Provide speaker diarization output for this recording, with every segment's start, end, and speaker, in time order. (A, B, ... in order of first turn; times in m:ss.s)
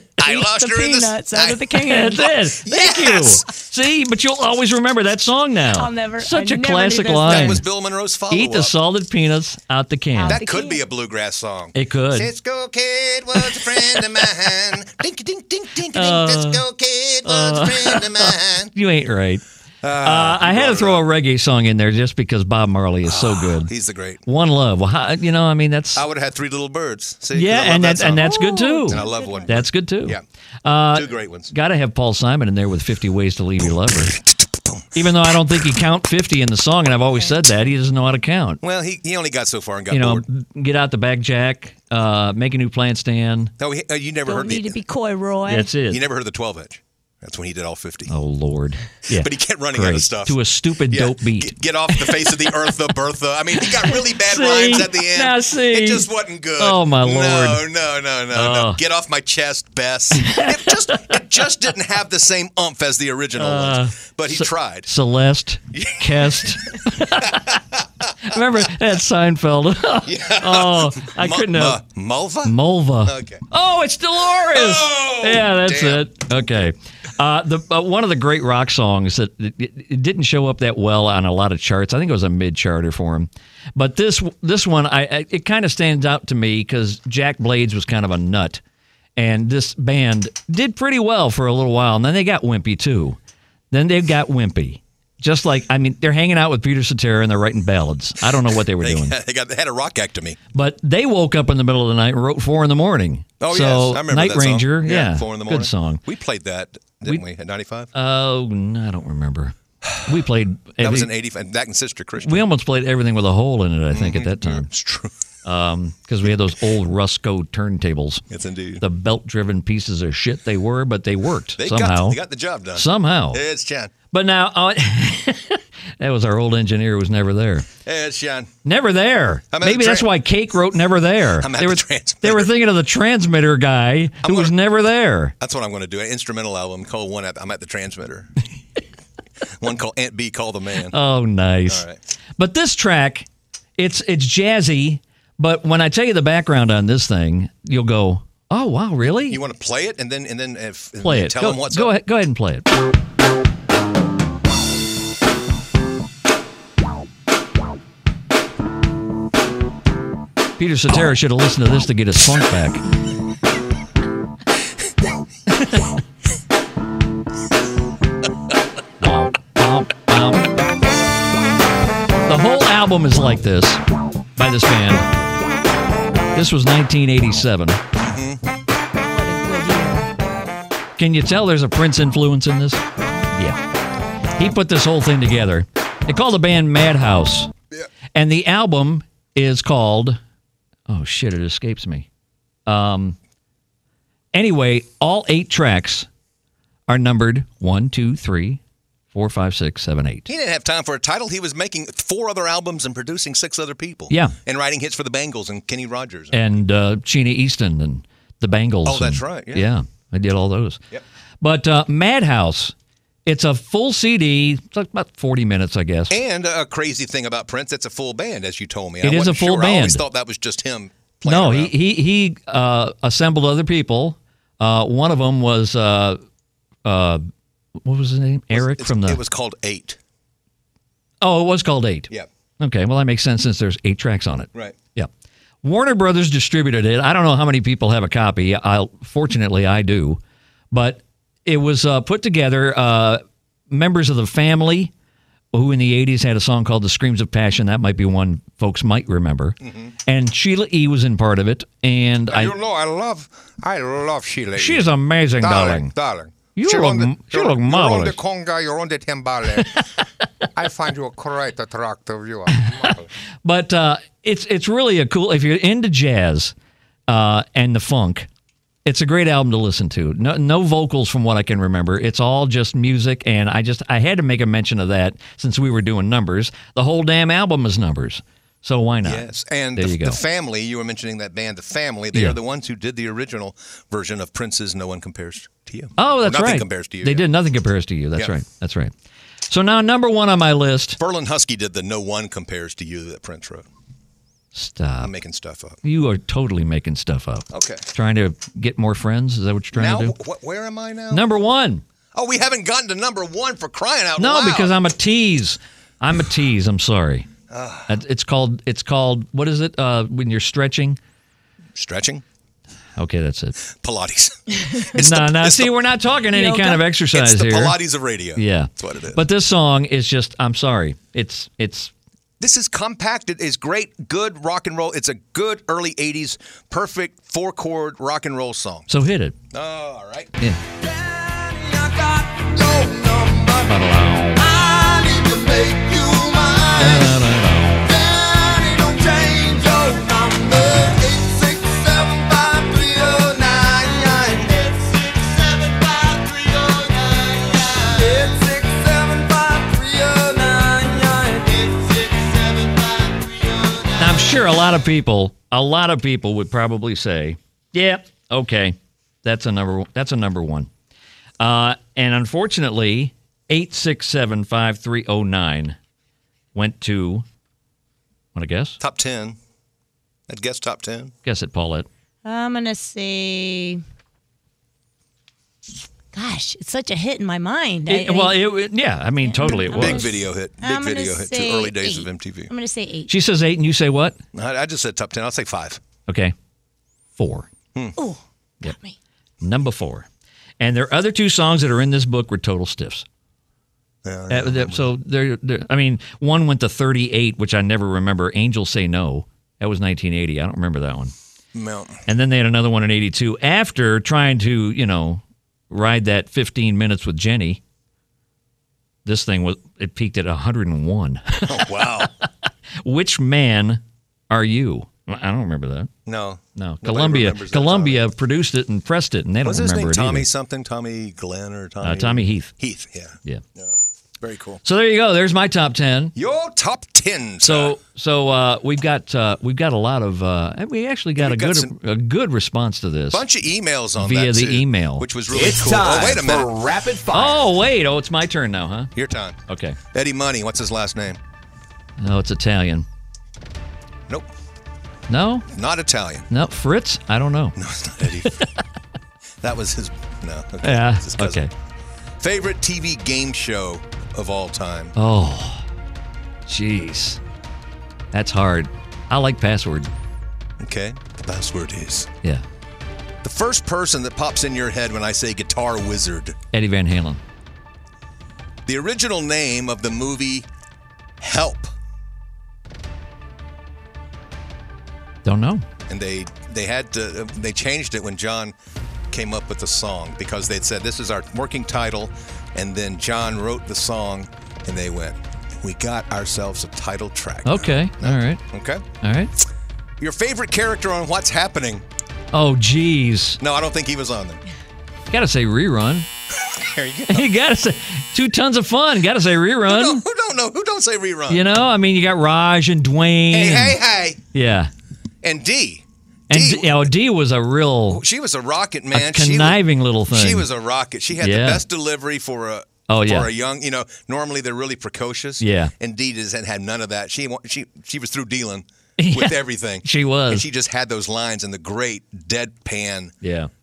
0:00.2-0:01.7 A
0:00.2-0:02.4 B
0:01.8-0:07.6 C
0:02.4-0:03.5 A
0:05.7-0:07.6 B
0:07.2-0:08.7 A
0:08.3-0:10.4 C
0:10.2-0:10.8 B
0:10.3-0:18.7 A
0:11.8-0:12.3 C
0:15.9-0:16.6 C
0:17.2-0:19.4 C
0:19.8-0:21.0 A
0:20.0-0:23.7 C
0:23.0-0:24.2 A
0:24.2-0:26.0 C
0:26.0-0:30.2 A
0:27.3-0:34.2 C
0:28.2-0:29.6 B
0:30.9-0:31.5 A
0:34.1-0:35.1 A
0:34.9-0:38.6 C
0:38.6-0:40.2 A
0:39.9-0:43.5 C
0:43.6-0:44.8 A
0:44.3-0:45.7 B
0:45.5-0:46.0 C
0:45.9-0:48.1 A
0:48.1-0:52.2 C
0:49.1-1:04.9 A
0:53.6-0:57.6 C
0:58.3-0:58.8 C
1:00.2-1:01.2 C
1:03.4-1:07.6 C
1:05.7-1:06.6 A
1:07.2-1:07.8 A
1:08.2-1:11.8 C
1:10.0-1:13.4 A
1:12.4-1:28.6 C
1:14.4-1:16.4 A
1:29.2-1:33.2 C
1:33.7-1:39.2 C
1:38.7-1:40.4 A
1:40.5-1:46.0 C
1:43.4-1:47.9 A
1:47.9-1:51.1 C
1:50.8-1:52.5 A
1:52.2-1:54.7 C
1:53.9-1:55.1 A
1:55.4-1:58.2 C
1:58.3-1:58.8 A
1:58.8-2:02.2 C
2:01.6-2:03.9 A
2:02.8-2:03.4 C
2:04.1-2:07.7 C
2:07.8-2:08.5 A
2:08.6-2:15.3 C
2:09.5-2:10.1 A
2:11.4-2:12.5 A
2:14.2-2:14.5 A
2:15.4-2:18.3 A
2:19.6-2:21.0 A
2:20.9-2:21.8 C
2:21.7-2:22.0 A
2:22.4-2:29.4 C
2:29.3-2:32.0 A
2:31.0-2:32.7 C
2:40.6-2:42.8 C
2:45.5-2:45.9 C
2:49.0-2:50.5 C
2:52.3-2:53.8 C
2:54.4-2:55.1 C
2:56.3-2:57.8 C
2:58.0-2:58.4 A
2:59.0-3:00.1 B
3:01.0-3:03.6 C
3:04.4-3:07.5 C
3:08.1-3:10.2 C
3:10.9-3:12.1 C
3:12.7-3:13.2 C
3:14.3-3:16.1 C
3:16.9-3:18.6 C
3:19.1-3:20.3 C
3:20.3-3:26.6 A
3:24.1-3:24.4 C
3:26.3-3:30.8 C
3:28.8-3:29.7 A
3:31.4-3:32.7 C
3:33.3-3:36.2 C
3:36.1-3:41.7 A
3:39.0-3:40.0 C
3:41.2-3:46.2 C
3:46.8-3:47.3 C
3:47.8-3:49.2 C
3:48.5-3:50.0 A
3:51.2-3:55.1 C
3:55.6-4:00.2 C
4:00.7-4:04.9 C
4:05.5-4:12.6 C
4:09.6-4:09.9 A
4:12.3-4:19.8 A
4:14.6-4:15.9 C
4:16.6-4:18.2 C
4:19.5-4:19.8 C
4:20.6-4:23.1 A
4:22.5-4:26.5 C
4:27.1-4:28.3 C
4:28.8-4:39.2 C
4:39.0-4:47.3 A
4:39.8-4:40.2 C
4:46.0-4:48.9 C
4:49.5-4:51.0 C
4:51.0-4:53.7 A
4:54.5-4:55.1 C
4:55.0-4:55.8 A
4:55.8-5:00.2 C
4:57.5-4:57.9 A
4:59.7-5:01.3 A
5:01.1-5:01.8 C
5:02.1-5:04.8 A
5:04.2-5:07.3 C
5:07.5-5:08.0 A
5:07.9-5:11.0 C
5:11.8-5:12.2 A
5:13.0-5:13.6 C
5:13.6-5:15.8 A
5:14.9-5:17.8 C
5:16.3-5:16.8 B
5:17.1-5:19.2 A
5:18.4-5:21.9 C
5:22.4-5:28.9 A
5:28.9-5:29.4 C
5:29.5-5:30.4 A
5:30.8-5:37.3 D
5:33.7-5:34.4 C
5:36.8-5:37.8 C
5:37.8-5:54.4 D
5:54.0-6:00.7 C
6:01.4-6:05.8 C
6:06.6-6:07.2 C
6:08.4-6:08.8 C
6:08.8-6:09.4 A
6:10.3-6:11.1 A
6:11.2-6:11.9 C
6:12.2-6:13.8 B
6:16.1-6:18.4 B
6:17.9-6:20.1 C
6:19.2-6:23.1 B
6:19.7-6:22.5 A
6:23.1-6:24.2 C
6:24.3-6:25.8 A
6:26.1-6:26.4 C
6:27.2-6:27.5 C
6:28.0-6:29.0 B
6:29.4-6:30.1 C
6:30.6-6:33.0 C
6:34.0-6:34.9 A
6:34.3-6:41.1 C
6:41.5-6:42.0 A
6:42.1-6:47.6 C
6:49.0-6:52.1 C
6:51.5-6:52.1 A
6:52.8-6:55.9 C
6:56.1-6:58.0 A
6:56.6-7:00.3 C
6:59.4-7:04.6 A
7:01.8-7:02.5 C
7:04.6-7:06.1 C
7:06.2-7:07.8 A
7:07.4-7:13.2 C
7:11.2-7:11.7 A
7:13.1-7:16.5 A
7:14.0-7:15.1 C
7:15.3-7:17.5 E
7:17.1-7:18.9 C
7:19.0-7:19.4 A
7:19.5-7:19.8 C
7:19.9-7:21.2 A
7:22.0-7:22.9 C
7:25.1-7:25.5 C
7:25.5-7:26.3 A
7:26.3-7:27.6 C
7:27.6-7:28.4 A
7:28.2-7:28.5 C
7:29.4-7:31.5 A
7:30.6-7:31.5 C
7:32.2-7:34.9 A
7:35.0-7:35.6 C
7:36.5-7:37.2 C
7:38.1-7:39.9 C
7:40.6-7:42.1 A
7:43.2-7:46.4 A
7:46.5-7:47.2 C
7:48.7-7:50.5 A
7:51.2-7:51.7 A
7:55.2-7:55.6 C
7:55.9-7:58.6 A
7:59.1-8:08.8 A
8:07.4-8:08.4 C
8:09.0-8:09.3 C
8:10.0-8:11.8 A
8:12.3-8:13.4 C
8:13.4-8:14.4 A
8:15.1-8:16.1 C
8:16.4-8:17.3 A
8:17.1-8:20.0 C
8:19.7-8:21.4 A
8:21.3-8:23.8 C
8:23.3-8:24.2 A
8:24.3-8:24.7 C
8:25.2-8:26.9 A
8:26.3-8:28.0 C
8:27.9-8:43.2 A
8:28.9-8:30.5 C
8:31.2-8:31.6 C
8:32.9-8:33.3 C
8:35.4-8:35.7 C
8:39.0-8:40.5 C
8:43.2-8:43.5 C